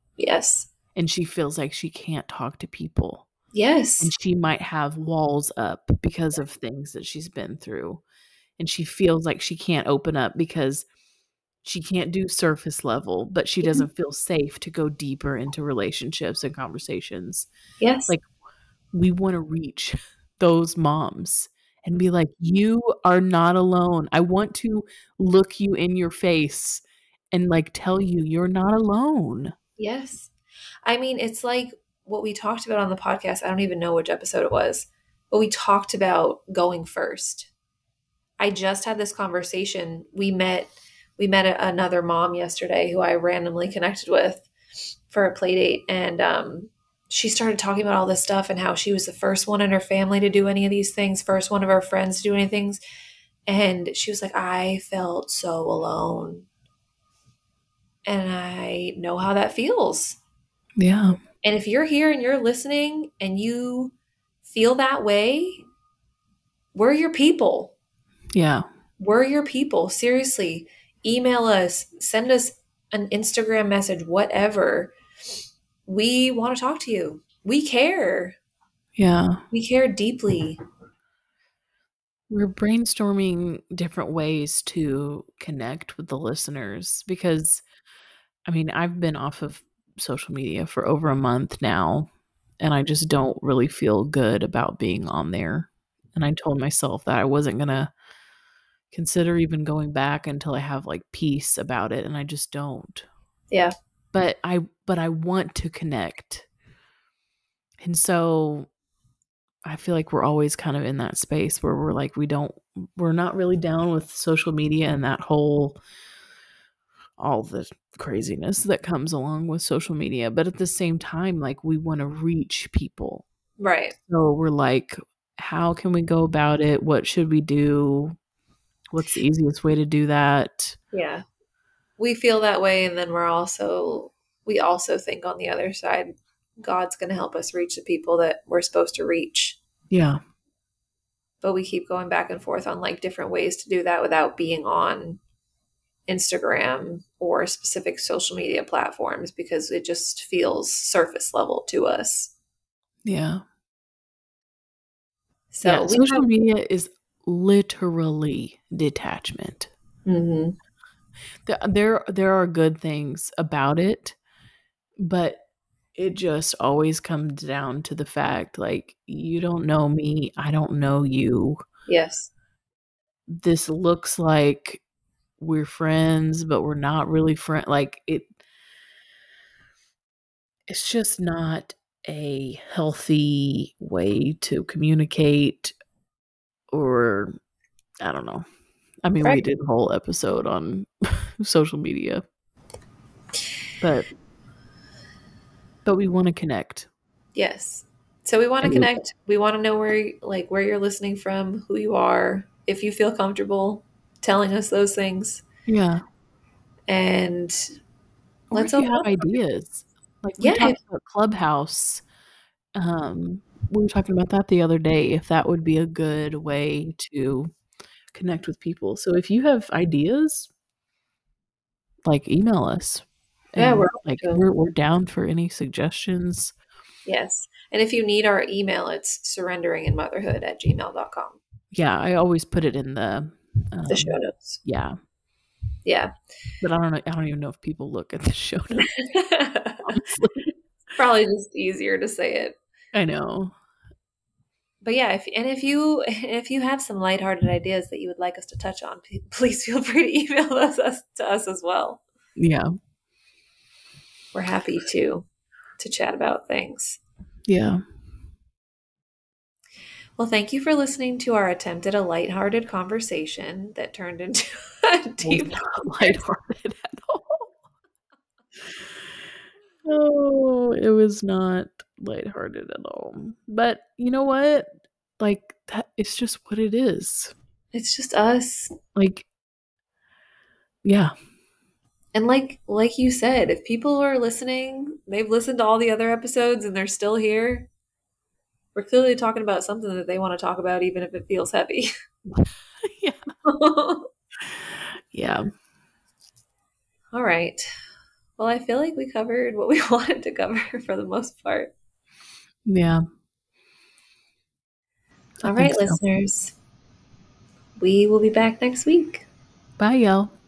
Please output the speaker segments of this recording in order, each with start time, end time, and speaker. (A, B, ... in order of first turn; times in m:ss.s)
0:00.2-0:00.7 A
0:01.0-0:03.3 B
0:03.5-0:04.1 A
0:04.0-0:08.0 B
0:08.6-0:10.8 B
0:11.6-0:17.5 B
0:17.8-0:18.1 A
0:18.9-0:29.5 B
0:29.8-0:30.3 A
0:30.8-0:37.5 A
0:38.4-0:44.5 A
0:45.1-0:52.8 A
0:53.5-0:56.5 A
0:58.1-1:00.2 A
1:00.8-1:01.2 B
1:01.4-1:05.6 A
1:06.7-1:07.7 A
1:08.3-1:08.7 B
1:09.0-1:14.9 A
1:15.9-1:18.4 A
1:19.0-1:19.4 B
1:19.5-1:20.6 A
1:22.3-1:27.6 B
1:28.5-1:32.1 B
1:32.6-1:37.9 B
1:38.9-1:43.1 B
1:44.1-1:46.5 B
1:47.8-1:48.7 B
1:49.6-1:55.8 B
1:57.2-2:03.3 B
2:03.6-2:04.0 A
2:04.1-2:08.2 B
2:08.9-2:10.8 B
2:10.9-2:11.2 A
2:12.0-2:19.6 A
2:19.9-2:20.2 B
2:21.4-2:25.2 A
2:26.1-2:32.3 A
2:33.0-2:33.4 B
2:35.5-2:36.3 A
2:35.6-2:39.7 B
2:40.1-2:40.6 A
2:41.4-2:44.2 B
2:45.0-2:45.4 B
2:46.0-2:51.6 B
2:51.9-2:52.3 A
2:53.3-2:54.8 B
2:55.4-2:58.3 B
3:00.7-3:05.8 B
3:06.7-3:07.4 B
3:08.0-3:08.4 B
3:09.0-3:12.2 B
3:13.8-3:14.1 B
3:15.8-3:16.9 B
3:17.4-3:25.4 A
3:18.6-3:18.9 B
3:25.7-3:26.0 B
3:26.9-3:27.7 A
3:28.5-3:32.0 B
3:28.5-3:29.2 A
3:30.4-3:30.8 A
3:32.8-3:37.5 B
3:38.1-3:40.5 B
3:42.0-3:46.5 B
3:43.6-3:44.4 A
3:47.1-3:51.4 A
3:51.7-3:55.0 B
3:53.9-3:54.6 A
3:55.8-3:56.1 A
3:56.6-3:58.9 B
3:58.9-3:59.9 A
3:59.8-4:00.5 B
4:01.0-4:02.6 A
4:02.9-4:03.5 B
4:04.8-4:12.0 A
4:12.4-4:12.7 B
4:14.3-4:15.3 A
4:15.8-4:17.0 A
4:17.5-4:17.8 B
4:20.2-4:26.2 A
4:25.2-4:27.5 B
4:29.8-4:34.7 B
4:35.2-4:37.3 B
4:37.7-4:38.7 A
4:39.0-4:39.3 B
4:40.8-4:41.1 B
4:42.1-4:47.7 A
4:48.8-4:51.9 A
4:52.3-4:53.2 B
4:53.5-4:54.1 A
4:54.6-4:55.4 B
4:57.1-4:57.6 A
4:58.4-5:01.7 A
5:02.7-5:03.0 B
5:05.4-5:06.5 A
5:05.5-5:06.0 B
5:07.8-5:09.3 A
5:09.8-5:10.3 B